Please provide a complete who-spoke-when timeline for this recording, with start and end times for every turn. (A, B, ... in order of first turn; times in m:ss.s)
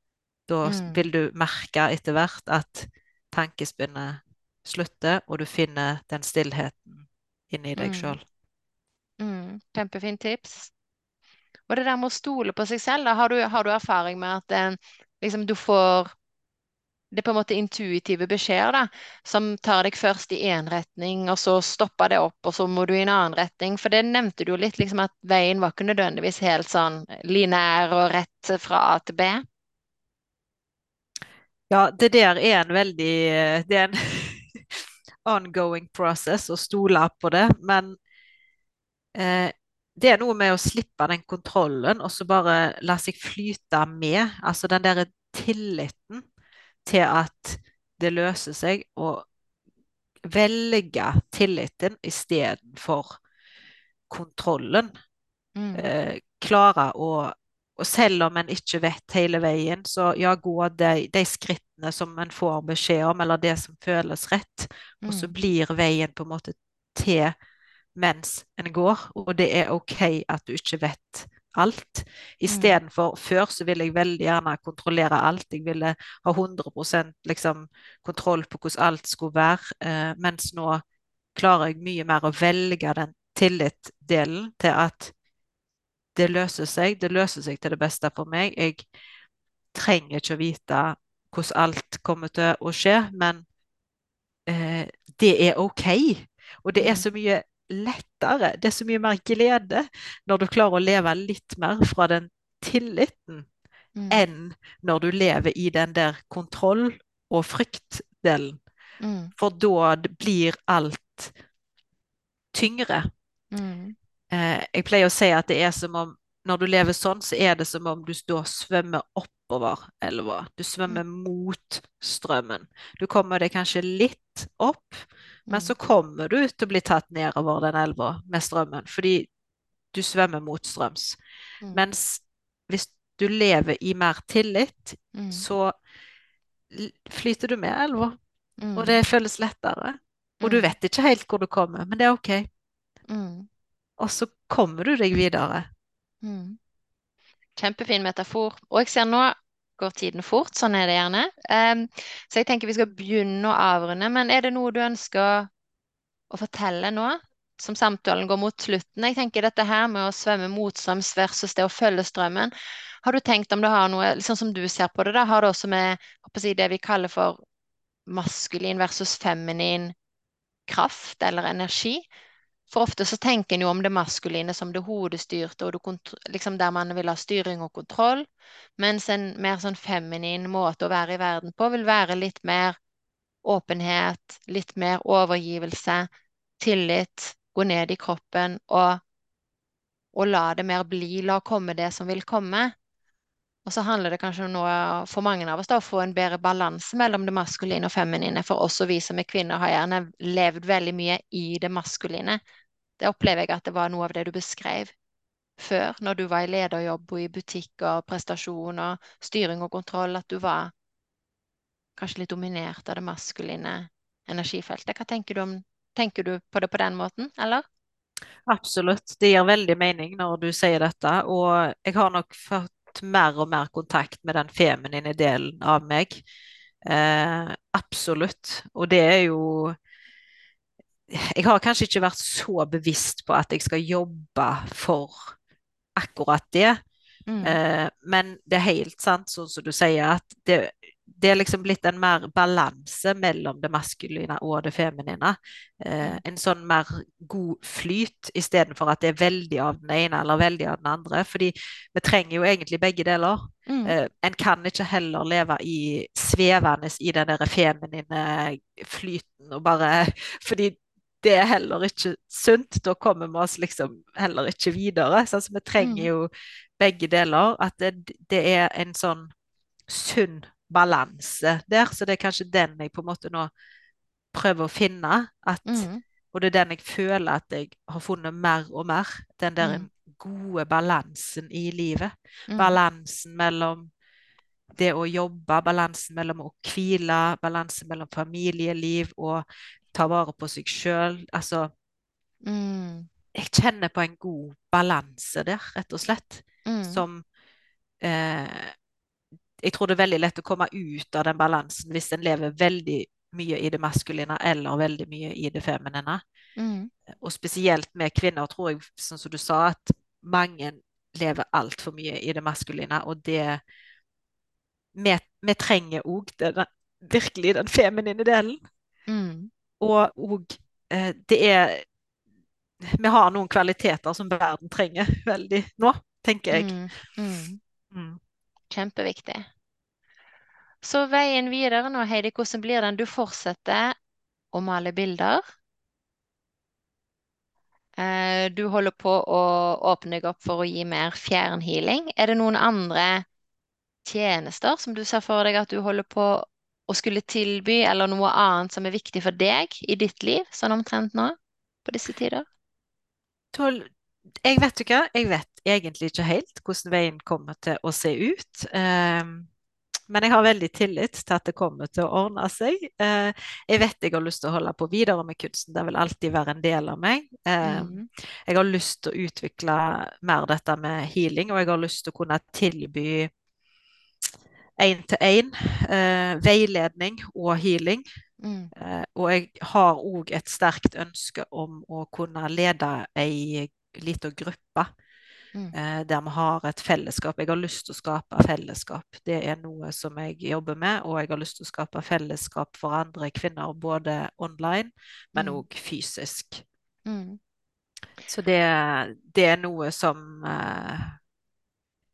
0:00.5-0:08.2 A
0:00.6-0:01.0 B
0:07.8-0:08.2 B
0:09.2-0:10.7 B
0:11.7-0:16.1 B
0:17.1-0:29.4 B
0:31.7-0:38.0 A
0:39.2-0:46.2 A
0:46.8-0:49.2 A
0:50.3-0:53.2 A
0:54.1-0:54.9 A
0:55.6-0:55.9 B
0:55.7-1:07.3 A
1:05.0-1:05.3 B
1:08.0-1:20.8 A
1:12.5-1:12.8 B
1:21.3-1:25.1 A
1:26.2-1:28.8 A
1:29.7-1:33.4 A
1:34.5-1:43.5 A
1:36.8-1:37.0 B
1:44.0-1:44.2 B
1:44.1-1:48.6 A
1:49.0-1:49.3 B
1:49.4-1:51.3 A
1:52.5-1:53.0 A
1:53.5-1:53.9 B
1:54.3-2:09.3 A
2:05.5-2:05.7 B
2:09.9-2:11.2 A
2:11.7-2:15.7 A
2:15.1-2:15.4 B
2:16.7-2:18.2 A
2:18.6-2:19.0 B
2:18.8-2:22.5 A
2:20.4-2:20.7 B
2:23.1-2:23.5 B
2:24.0-2:25.7 A
2:26.2-2:26.6 B
2:27.6-2:35.5 B
2:36.3-2:42.5 B
2:43.0-2:47.4 B
2:48.1-2:49.9 B
2:50.7-2:52.0 B
2:52.7-2:58.3 B
2:58.8-3:02.8 B
3:03.4-3:06.1 B
3:06.6-3:09.0 B
3:10.1-3:12.7 B
3:13.6-3:22.4 B
3:23.0-3:24.9 B
3:25.6-3:30.7 B
3:32.0-3:37.6 B
3:38.5-3:46.2 A
3:46.8-3:49.8 A
3:51.1-3:55.3 A
3:56.0-3:56.8 A
3:57.3-3:57.6 B
3:57.4-4:29.3 A
4:13.7-4:14.0 B
4:25.8-4:26.1 B
4:29.9-4:33.5 A
4:34.3-4:43.9 A
4:35.6-4:36.0 B
4:39.6-4:39.9 B
4:42.5-4:42.8 B
4:44.8-4:51.7 A
4:52.4-4:53.1 B
4:53.4-4:57.2 A
4:56.6-4:57.0 B
4:58.0-4:58.7 A
4:59.6-5:06.2 A
5:06.6-5:06.9 B
5:07.1-5:13.6 A
5:14.9-5:18.6 A
5:19.1-5:19.5 B
5:19.8-5:21.8 A
5:23.0-5:26.7 A
5:26.5-5:27.6 B
5:27.9-5:28.2 A
5:28.7-5:29.5 B
5:30.8-5:33.9 B
5:34.5-5:35.4 B
5:38.0-5:43.2 B
5:44.0-5:52.4 B
5:53.5-5:53.9 A
5:54.4-5:59.5 A
6:00.1-6:08.0 A
6:07.6-6:08.1 B
6:08.5-6:13.3 A
6:14.8-6:18.0 A
6:18.4-6:18.7 B
6:18.7-6:24.9 A
6:25.7-6:36.6 A
6:35.4-6:35.6 B
6:37.0-6:37.4 B
6:38.3-6:41.2 A